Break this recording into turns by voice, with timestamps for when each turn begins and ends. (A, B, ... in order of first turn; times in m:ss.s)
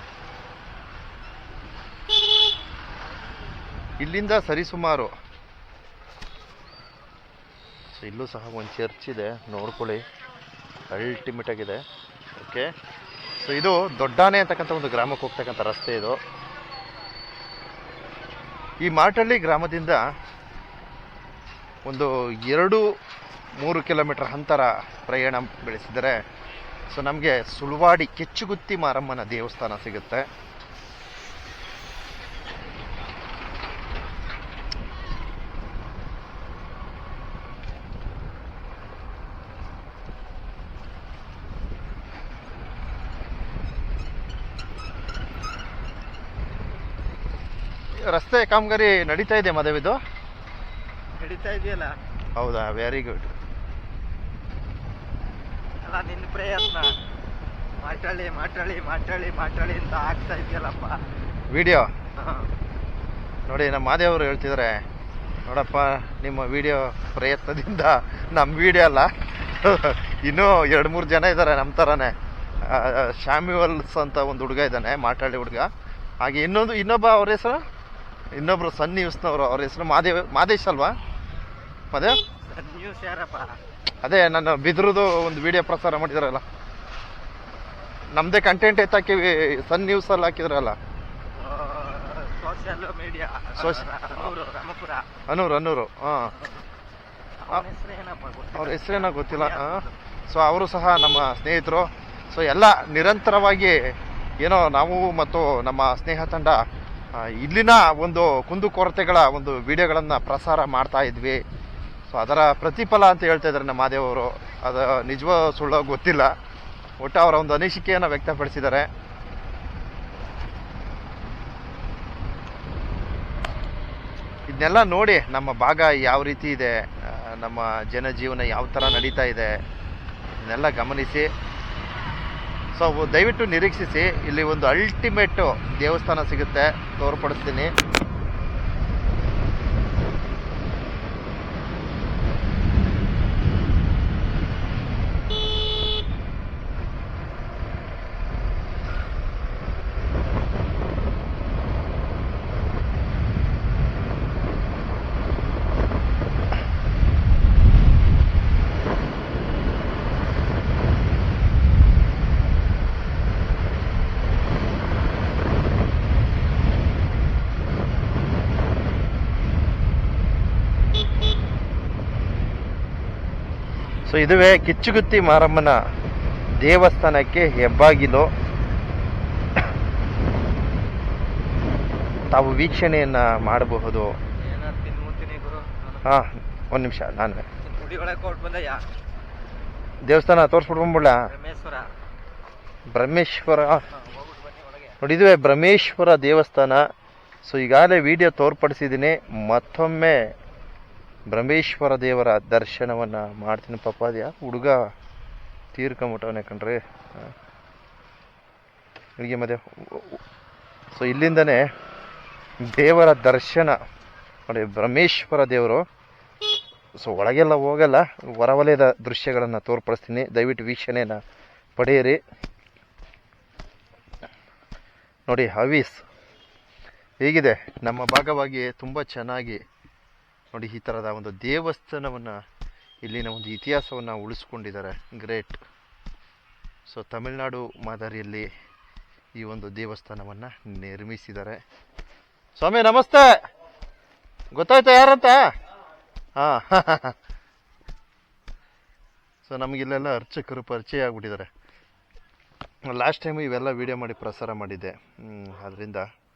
0:04.0-0:05.1 A
0:07.9-0:10.0 A
0:10.9-0:11.8 A
0:12.4-0:12.7 A
0:13.4-0:16.2 A
0:18.8-0:20.0 A
0:21.8-0:22.8 A
0:23.6-0:26.2 A
0:26.9-0:30.2 A
0:48.0-0:50.0 A
0:51.2-0:52.0 B
0:52.4-0:53.3 A
0:55.8-0:56.9 B
0:57.8-1:01.0 B
1:01.5-1:01.9 A
1:02.2-1:02.5 B
1:03.5-1:04.8 A
1:05.4-1:15.7 A
1:16.2-1:17.6 A
1:18.4-1:21.0 A
1:21.9-1:22.2 A
1:22.5-1:23.6 B
1:24.0-1:26.4 A
1:28.1-1:30.8 A
1:31.3-1:35.1 B
1:33.6-1:33.9 A
1:35.3-1:36.4 A
1:37.4-1:39.9 B
1:38.5-1:43.8 A
1:44.4-1:46.6 A
1:47.1-1:51.4 A
1:52.1-1:56.3 A
1:57.0-1:58.9 A
2:04.5-2:09.6 A
2:10.4-2:11.3 A
2:12.7-2:17.7 A
2:54.1-2:55.8 A
2:56.6-2:58.3 A
3:02.3-3:04.1 A
3:04.4-3:06.2 B
3:06.0-3:07.4 A
3:07.6-3:08.8 B
3:10.0-3:11.3 A
3:11.2-3:11.9 B
3:12.9-3:13.8 A
3:13.9-3:15.0 B
3:15.0-3:16.8 A
3:17.4-3:20.3 A
3:21.3-3:24.8 A
3:25.7-3:27.3 A
3:29.2-3:30.2 A
3:30.9-3:31.6 A
3:32.7-3:33.8 A
3:34.5-3:35.8 A
3:37.0-3:41.2 A
3:41.8-3:42.2 A
3:45.3-3:46.0 A
3:47.2-3:49.6 A
3:50.5-3:52.4 A
3:53.0-3:55.6 A
3:56.9-3:58.5 A
3:59.4-4:01.6 A
4:02.6-4:03.3 A
4:04.5-4:05.5 A
4:06.4-4:07.2 A
4:09.4-4:11.5 A
4:12.9-4:16.1 A